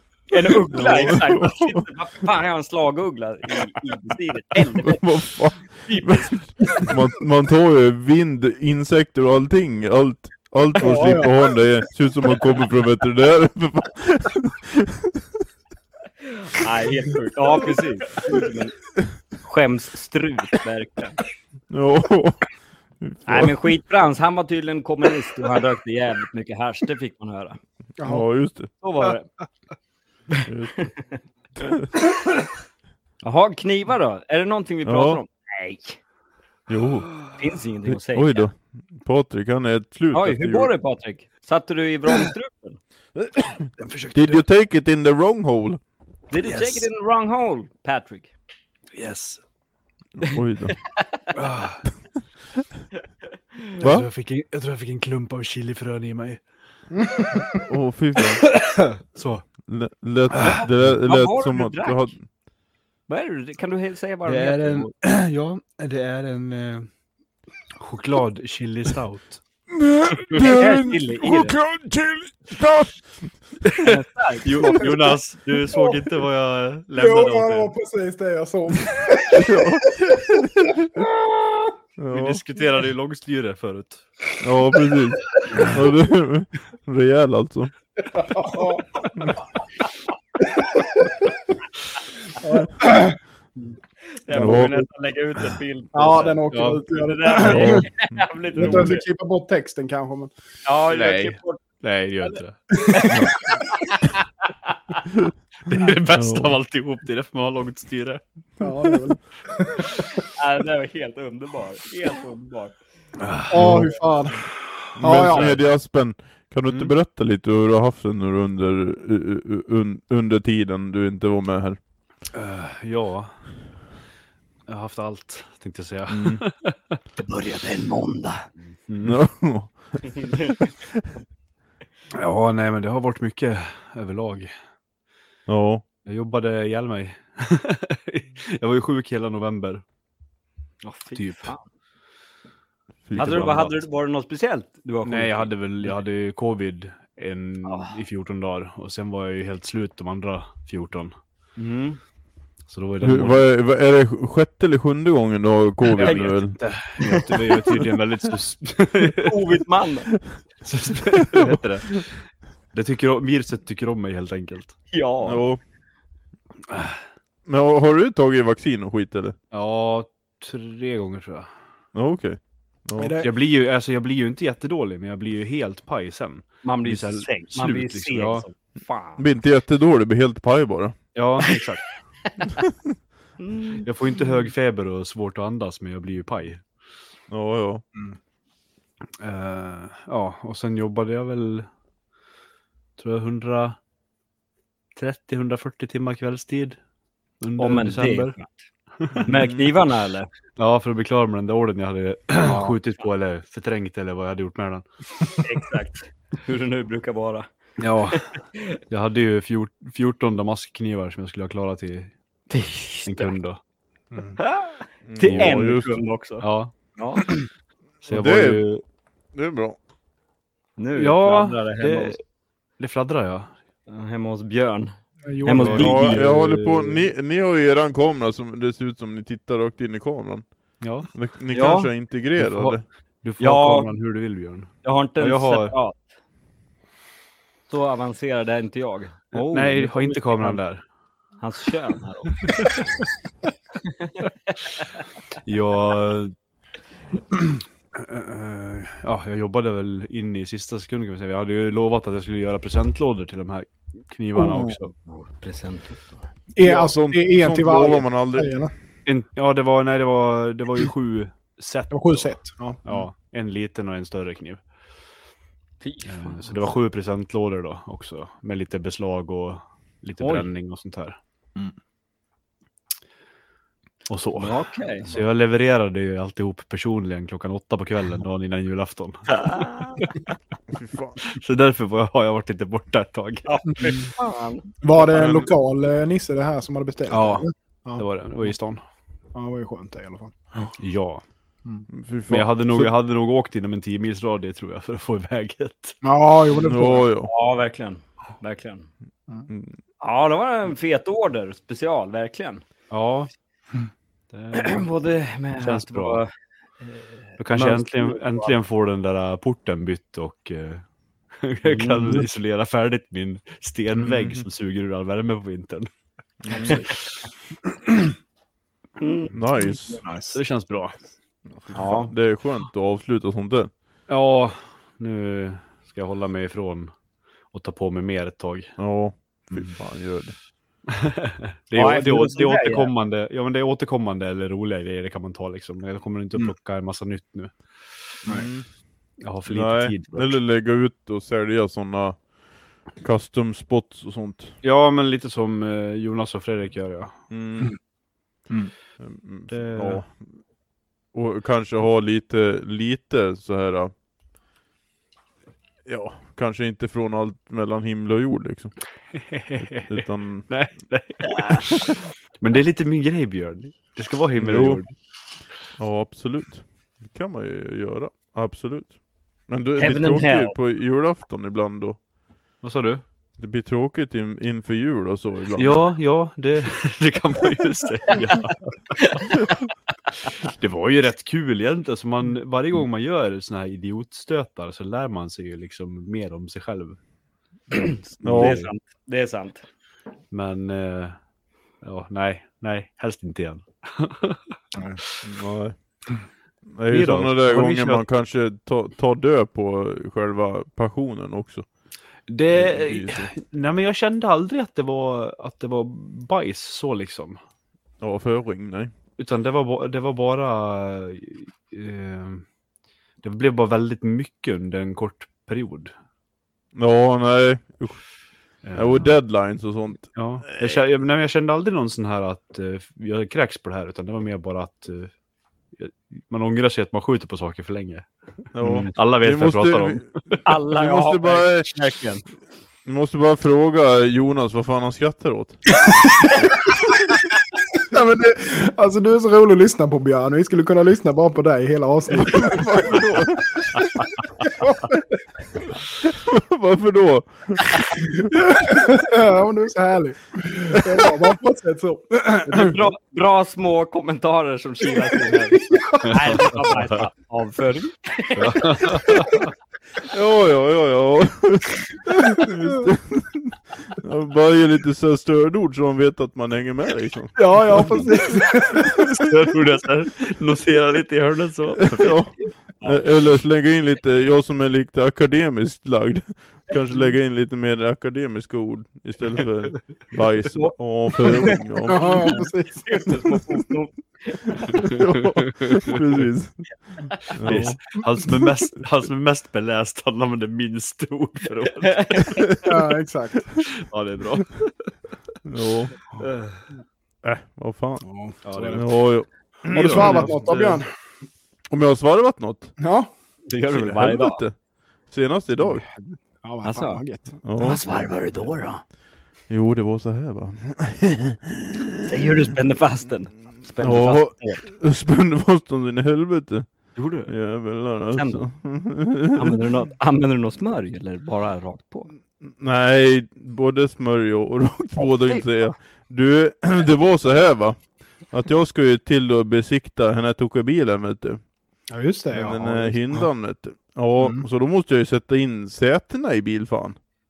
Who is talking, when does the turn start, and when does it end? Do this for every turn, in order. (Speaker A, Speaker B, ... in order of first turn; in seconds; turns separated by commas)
Speaker A: 0.3-5.0, Speaker B: 0.7-1.9, Speaker B: 4.6-15.2, Speaker A: 5.9-7.0, Speaker C: 10.8-11.5, Speaker A: 16.3-18.8, Speaker A: 19.4-21.2, Speaker B: 21.7-22.5, Speaker B: 23.0-23.6, Speaker A: 23.3-27.6, Speaker C: 28.0-28.3, Speaker B: 28.0-28.7, Speaker A: 28.8-29.3, Speaker B: 30.5-30.9, Speaker A: 30.8-31.2, Speaker B: 31.6-31.9, Speaker A: 33.2-36.0, Speaker B: 34.9-35.2, Speaker B: 36.7-37.3, Speaker A: 37.4-38.5, Speaker B: 37.9-40.7, Speaker A: 40.1-42.8, Speaker B: 43.2-45.8, Speaker D: 43.8-44.4, Speaker A: 46.3-48.3, Speaker D: 46.4-46.9, Speaker D: 49.0-49.4, Speaker B: 50.2-50.9, Speaker A: 51.0-51.2, Speaker D: 51.3-51.8, Speaker D: 53.8-56.4, Speaker B: 53.8-54.1, Speaker C: 56.9-57.6, Speaker B: 57.6-58.5, Speaker D: 58.3-59.5, Speaker B: 59.7-62.2, Speaker D: 60.3-60.9, Speaker A: 60.5-62.1, Speaker A: 63.1-64.9, Speaker D: 64.2-66.9, Speaker D: 67.8-69.4, Speaker B: 69.7-72.9, Speaker A: 70.3-71.6, Speaker D: 73.6-73.9, Speaker A: 73.8-75.1, Speaker D: 74.4-77.7, Speaker C: 75.7-76.1, Speaker C: 77.0-80.4, Speaker B: 79.3-80.9, Speaker C: 81.0-81.7, Speaker B: 82.0-82.4, Speaker D: 82.1-84.1, Speaker B: 84.4-87.7, Speaker C: 88.1-89.1, Speaker C: 90.6-91.1, Speaker C: 92.4-93.2, Speaker A: 94.1-99.1, Speaker B: 94.3-94.9, Speaker C: 95.9-97.9, Speaker D: 96.5-96.8, Speaker B: 97.4-98.2, Speaker C: 98.5-100.3, Speaker A: 100.7-105.0, Speaker D: 100.9-102.7, Speaker D: 105.7-108.2, Speaker B: 106.1-106.6, Speaker C: 108.6-110.2, Speaker A: 110.3-112.8, Speaker D: 113.2-113.9, Speaker C: 113.5-115.6, Speaker B: 113.6-113.9, Speaker B: 115.0-121.8, Speaker D: 115.0-115.6, Speaker D: 116.7-116.9, Speaker D: 122.3-123.3, Speaker D: 124.7-127.0, Speaker B: 126.1-126.4, Speaker A: 127.2-128.5, Speaker D: 128.9-129.2, Speaker B: 129.0-130.9, Speaker A: 130.1-130.6, Speaker D: 132.1-134.5, Speaker B: 135.5-135.8, Speaker D: 136.1-139.8, Speaker A: 140.8-141.6, Speaker D: 141.2-141.5, Speaker B: 143.1-143.8, Speaker A: 143.2-145.5, Speaker D: 145.1-151.1, Speaker A: 147.7-147.9, Speaker A: 151.6-152.0, Speaker D: 152.7-153.5, Speaker B: 153.0-156.6, Speaker D: 156.0-159.3, Speaker A: 156.0-156.3, Speaker A: 157.0-157.9, Speaker A: 159.2-160.1, Speaker D: 160.6-162.2, Speaker B: 161.3-161.6, Speaker D: 162.7-164.8, Speaker A: 164.9-165.5, Speaker B: 165.2-165.6, Speaker D: 166.7-166.9, Speaker B: 167.5-169.4, Speaker D: 169.5-171.5, Speaker B: 171.9-173.2, Speaker C: 173.0-173.3, Speaker D: 173.2-178.4, Speaker A: 176.6-179.2, Speaker B: 179.2-181.0, Speaker D: 181.2-182.0, Speaker A: 183.4-183.9, Speaker D: 183.8-186.6, Speaker B: 187.3-187.8, Speaker D: 189.2-191.7, Speaker D: 193.0-193.8, Speaker D: 195.0-196.8, Speaker D: 197.4-198.3, Speaker A: 197.6-198.6, Speaker D: 199.0-199.3, Speaker B: 199.2-199.7, Speaker A: 199.3-200.3, Speaker D: 200.6-204.8, Speaker A: 202.4-203.0, Speaker A: 205.4-207.5, Speaker D: 207.8-208.3, Speaker A: 208.1-208.8, Speaker D: 208.9-212.1, Speaker A: 212.5-213.3, Speaker D: 213.1-213.6, Speaker C: 214.1-214.4, Speaker A: 214.4-216.4, Speaker B: 215.1-216.0, Speaker D: 216.4-216.7, Speaker A: 217.0-217.3, Speaker D: 218.0-218.8, Speaker B: 218.1-218.6, Speaker B: 219.3-219.8, Speaker A: 220.8-222.2, Speaker D: 220.9-222.2, Speaker D: 222.8-223.5, Speaker A: 223.9-226.2, Speaker C: 225.3-226.0, Speaker D: 225.6-227.1, Speaker B: 225.7-230.5, Speaker D: 230.8-231.1, Speaker B: 231.1-232.8, Speaker A: 231.5-231.9, Speaker D: 232.4-235.8, Speaker A: 233.4-233.9, Speaker A: 234.8-236.0, Speaker A: 237.7-240.6, Speaker D: 239.3-240.8, Speaker A: 241.4-242.7, Speaker D: 242.4-242.8, Speaker A: 243.8-244.8, Speaker D: 245.4-246.3, Speaker D: 247.9-254.9, Speaker C: 254.4-254.8, Speaker A: 255.1-256.2, Speaker C: 256.5-258.7, Speaker B: 256.6-258.7, Speaker D: 259.1-264.6, Speaker C: 261.9-262.8, Speaker A: 265.8-266.5, Speaker D: 266.1-271.2, Speaker A: 270.2-270.5, Speaker D: 274.1-280.1, Speaker A: 274.4-275.1, Speaker A: 279.3-280.2, Speaker B: 280.7-281.2, Speaker D: 281.2-283.5, Speaker A: 283.5-284.8, Speaker C: 283.8-284.1, Speaker C: 284.8-288.1, Speaker B: 285.1-285.5, Speaker D: 287.1-288.8, Speaker C: 289.3-290.7, Speaker D: 290.8-291.2, Speaker B: 291.9-292.9, Speaker D: 292.3-296.0, Speaker C: 296.0-297.1, Speaker B: 296.6-297.3, Speaker A: 297.2-298.9, Speaker B: 299.5-299.8, Speaker A: 300.0-302.6, Speaker D: 302.9-303.3, Speaker D: 304.3-304.9, Speaker A: 304.5-306.3, Speaker D: 305.6-306.2, Speaker A: 306.8-308.5, Speaker D: 307.4-310.9, Speaker D: 311.4-315.9, Speaker A: 311.7-312.2, Speaker B: 314.0-314.4, Speaker B: 316.4-316.9, Speaker D: 316.5-317.0, Speaker A: 316.5-316.8, Speaker A: 319.0-319.3, Speaker B: 319.3-320.0, Speaker C: 319.9-320.4, Speaker D: 320.3-320.9, Speaker B: 321.5-323.7, Speaker A: 321.7-322.1, Speaker D: 324.1-326.9, Speaker D: 327.5-328.7, Speaker B: 328.8-330.4, Speaker D: 330.9-337.6, Speaker A: 331.7-332.9, Speaker B: 338.3-338.7, Speaker D: 339.2-340.4, Speaker B: 339.5-342.2, Speaker B: 343.0-344.5, Speaker D: 344.6-347.1, Speaker B: 347.3-347.8, Speaker B: 349.0-350.2, Speaker D: 349.5-350.0, Speaker B: 351.1-353.9, Speaker B: 355.9-358.8, Speaker D: 359.2-364.9, Speaker B: 359.6-360.5, Speaker A: 361.3-361.7, Speaker B: 364.4-364.8, Speaker B: 365.8-369.0, Speaker B: 369.5-372.0, Speaker A: 369.8-370.5, Speaker D: 372.6-373.0, Speaker B: 373.4-375.8, Speaker D: 375.6-379.5, Speaker A: 379.0-379.2, Speaker D: 380.3-387.0, Speaker A: 387.7-389.6, Speaker B: 388.2-388.6, Speaker D: 388.2-388.7, Speaker D: 390.3-391.2, Speaker D: 391.8-394.6, Speaker C: 394.8-395.0, Speaker B: 395.2-395.8, Speaker B: 396.8-401.7, Speaker D: 396.9-398.0, Speaker D: 402.3-407.4, Speaker B: 402.6-403.3, Speaker B: 408.0-408.9, Speaker D: 409.2-412.4, Speaker D: 413.2-415.9, Speaker B: 416.8-418.0, Speaker D: 418.6-419.2, Speaker B: 418.8-420.8, Speaker D: 420.1-425.1, Speaker D: 425.8-428.1, Speaker B: 428.5-430.1, Speaker D: 428.6-430.4, Speaker A: 430.4-432.2, Speaker B: 430.6-431.7, Speaker B: 432.9-435.8, Speaker C: 437.8-443.0, Speaker B: 442.1-444.2, Speaker C: 444.5-445.0, Speaker B: 446.0-448.5, Speaker C: 448.3-452.9, Speaker A: 452.5-459.3, Speaker C: 455.7-456.1, Speaker D: 456.1-457.0, Speaker D: 458.4-459.4, Speaker B: 460.0-468.1, Speaker C: 467.4-469.3, Speaker D: 469.1-472.2, Speaker B: 471.9-482.4, Speaker A: 472.8-473.1, Speaker A: 480.5-484.9, Speaker C: 481.9-483.4, Speaker B: 484.8-486.7, Speaker D: 484.9-485.8, Speaker B: 487.3-487.8, Speaker D: 487.4-492.5, Speaker A: 491.8-492.6, Speaker C: 492.6-493.7, Speaker D: 493.7-494.9, Speaker B: 495.4-495.9, Speaker D: 496.2-496.6, Speaker B: 497.2-498.1, Speaker C: 498.0-498.9, Speaker D: 498.4-499.0, Speaker B: 498.7-500.3, Speaker C: 499.7-500.9, Speaker D: 499.7-500.8, Speaker B: 501.7-502.7, Speaker C: 502.8-503.1, Speaker A: 503.5-504.4, Speaker B: 503.7-504.6, Speaker B: 505.1-505.8, Speaker C: 505.6-507.3, Speaker A: 506.6-507.0, Speaker B: 507.4-507.8, Speaker A: 507.6-508.8, Speaker B: 509.5-511.8, Speaker A: 512.0-514.6, Speaker B: 513.8-519.6, Speaker D: 517.0-517.3, Speaker A: 518.1-518.5, Speaker A: 519.4-522.1, Speaker B: 522.4-531.4, Speaker C: 531.9-533.3, Speaker B: 532.3-537.0, Speaker C: 534.2-534.5